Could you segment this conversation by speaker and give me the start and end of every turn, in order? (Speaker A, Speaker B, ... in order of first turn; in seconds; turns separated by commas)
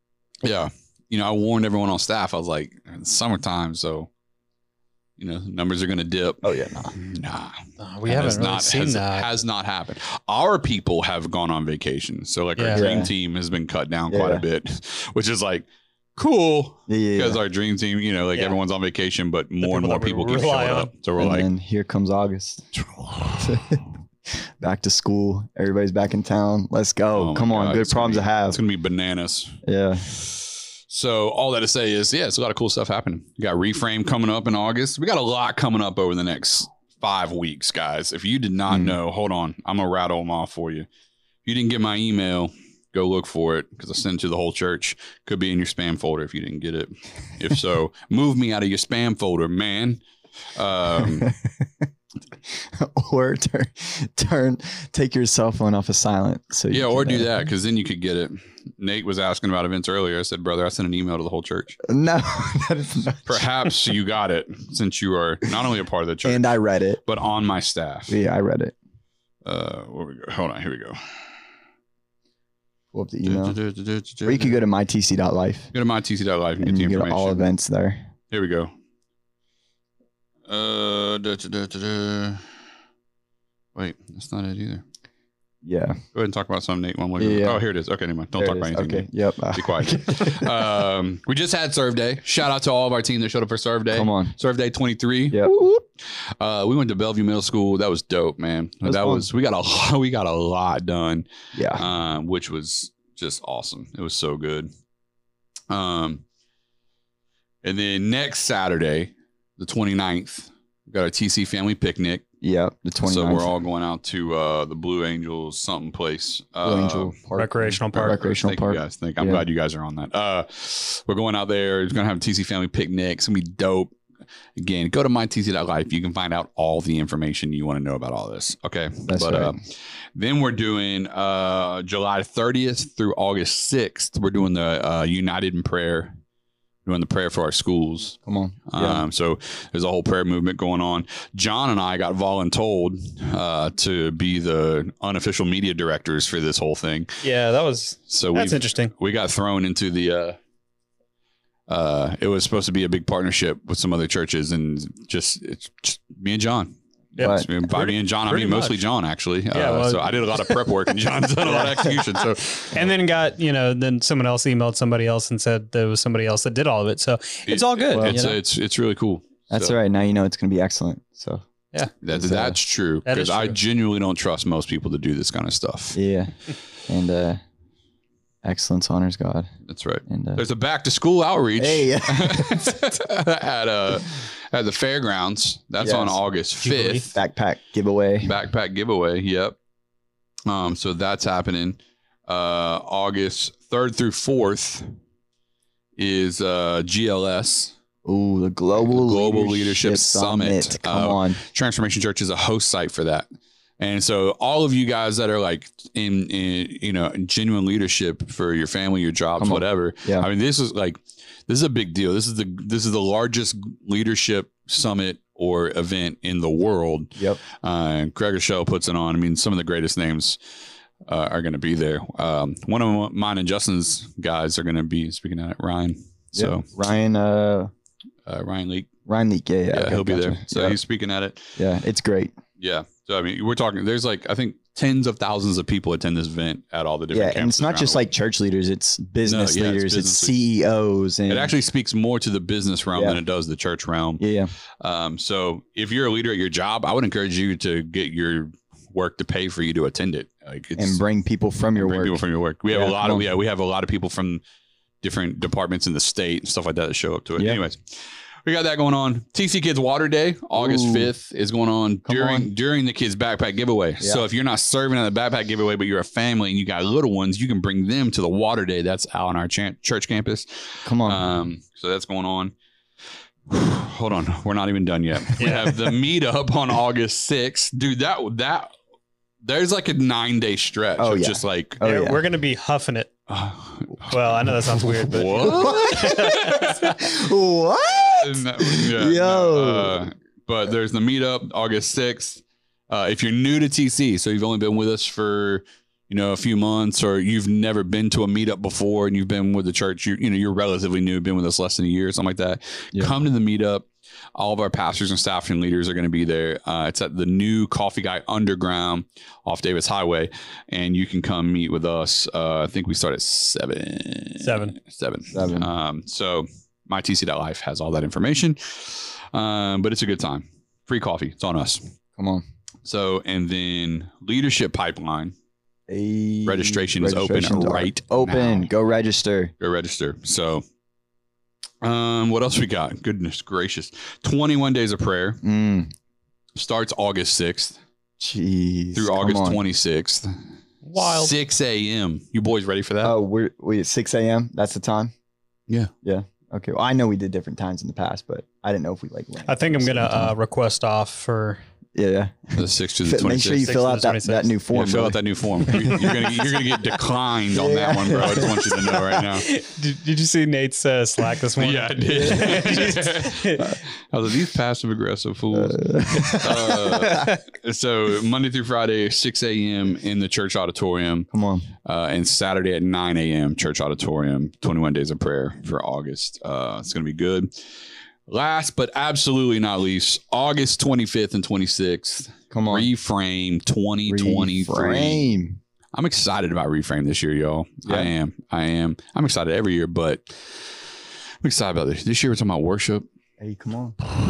Speaker A: 0.4-4.1, Speaker A: 5.2-21.5, Speaker B: 6.4-6.9, Speaker C: 7.8-9.3, Speaker C: 12.6-12.9, Speaker B: 12.7-13.1, Speaker B: 14.1-14.4, Speaker B: 16.9-17.4, Speaker C: 19.6-20.9, Speaker B: 21.2-22.7, Speaker A: 22.9-23.5, Speaker B: 23.4-23.8, Speaker B: 24.6-28.6, Speaker A: 27.1-40.9, Speaker B: 29.6-30.1, Speaker B: 38.7-39.0, Speaker A: 41.4-50.0, Speaker A: 50.5-51.3, Speaker B: 51.0-51.6, Speaker B: 52.5-57.3, Speaker A: 56.7-61.8, Speaker B: 61.8-63.4, Speaker A: 63.3-66.5, Speaker B: 66.2-67.0, Speaker A: 67.0-68.2, Speaker B: 68.1-68.8, Speaker A: 69.5-71.2, Speaker B: 72.9-73.6, Speaker A: 73.2-74.6, Speaker B: 74.2-75.7, Speaker A: 75.7-77.5, Speaker B: 76.6-78.1, Speaker A: 78.3-78.7, Speaker A: 80.5-82.5, Speaker A: 83.8-84.8, Speaker B: 85.6-86.0, Speaker A: 86.1-104.7, Speaker B: 87.2-87.6, Speaker B: 88.4-90.7, Speaker B: 93.9-94.3, Speaker B: 98.8-99.3, Speaker B: 101.5-101.8, Speaker A: 105.7-106.2, Speaker A: 107.6-112.2, Speaker B: 112.4-113.5, Speaker A: 113.0-117.2, Speaker B: 116.6-119.4, Speaker C: 117.4-118.2, Speaker A: 117.9-123.9, Speaker A: 124.6-136.2, Speaker B: 129.1-129.6, Speaker A: 136.8-147.2, Speaker B: 138.2-139.0, Speaker C: 147.2-148.9, Speaker A: 148.1-150.4, Speaker A: 151.7-162.9, Speaker C: 157.2-158.8, Speaker B: 157.2-157.5, Speaker C: 159.5-160.7, Speaker B: 161.4-162.2, Speaker C: 162.7-168.4, Speaker A: 167.5-169.8, Speaker B: 167.9-168.2, Speaker B: 169.5-171.4, Speaker A: 172.0-176.0, Speaker B: 172.1-172.6, Speaker C: 173.1-173.6, Speaker B: 175.9-176.3, Speaker B: 176.9-177.4, Speaker B: 178.4-179.5, Speaker A: 179.7-187.2, Speaker B: 180.1-180.4, Speaker B: 181.6-182.8, Speaker B: 185.8-186.2, Speaker C: 186.6-187.1, Speaker B: 187.1-188.3, Speaker A: 188.2-189.6, Speaker A: 190.5-194.9, Speaker A: 196.0-197.7, Speaker B: 198.1-201.4, Speaker A: 198.8-203.3, Speaker A: 203.8-220.4, Speaker B: 209.4-210.3, Speaker A: 221.1-226.7, Speaker B: 226.3-227.7, Speaker A: 228.2-228.9, Speaker B: 229.1-230.8, Speaker A: 229.7-231.6, Speaker B: 231.6-232.3, Speaker A: 232.6-238.0, Speaker B: 237.1-241.5, Speaker A: 239.2-240.3, Speaker A: 241.3-244.2, Speaker B: 242.9-243.2, Speaker B: 244.2-244.5, Speaker A: 244.8-251.0, Speaker B: 250.8-253.3, Speaker A: 251.8-254.4, Speaker A: 255.0-272.5, Speaker B: 260.6-261.1, Speaker B: 262.1-262.5, Speaker B: 270.9-271.2, Speaker A: 273.5-278.7, Speaker C: 275.4-275.8, Speaker A: 279.4-281.8, Speaker B: 281.0-282.2, Speaker C: 281.8-283.1, Speaker A: 283.3-287.0, Speaker C: 284.1-286.9, Speaker B: 285.4-290.0, Speaker A: 288.1-321.9, Speaker C: 314.4-314.8, Speaker B: 315.3-315.7, Speaker B: 322.2-322.4, Speaker A: 322.9-325.3, Speaker B: 325.9-329.5, Speaker A: 326.5-328.7, Speaker A: 329.6-330.6, Speaker A: 331.8-335.4, Speaker B: 335.4-335.9, Speaker A: 336.6-337.8, Speaker B: 338.2-339.6, Speaker A: 338.9-340.3, Speaker C: 340.8-341.3, Speaker A: 341.0-343.2, Speaker B: 343.0-345.1, Speaker B: 346.0-350.4, Speaker C: 349.5-351.6, Speaker B: 351.9-356.2, Speaker A: 352.6-353.7, Speaker C: 353.6-354.5, Speaker A: 354.7-359.5, Speaker B: 357.5-358.8, Speaker C: 359.2-363.7, Speaker A: 361.6-371.3, Speaker B: 362.3-362.6, Speaker B: 365.5-367.3, Speaker B: 371.3-371.7, Speaker A: 371.8-377.5, Speaker A: 378.3-385.3, Speaker B: 382.5-382.9, Speaker B: 384.1-385.6, Speaker A: 385.9-390.8, Speaker B: 387.9-388.1, Speaker A: 391.4-393.1, Speaker B: 393.4-394.0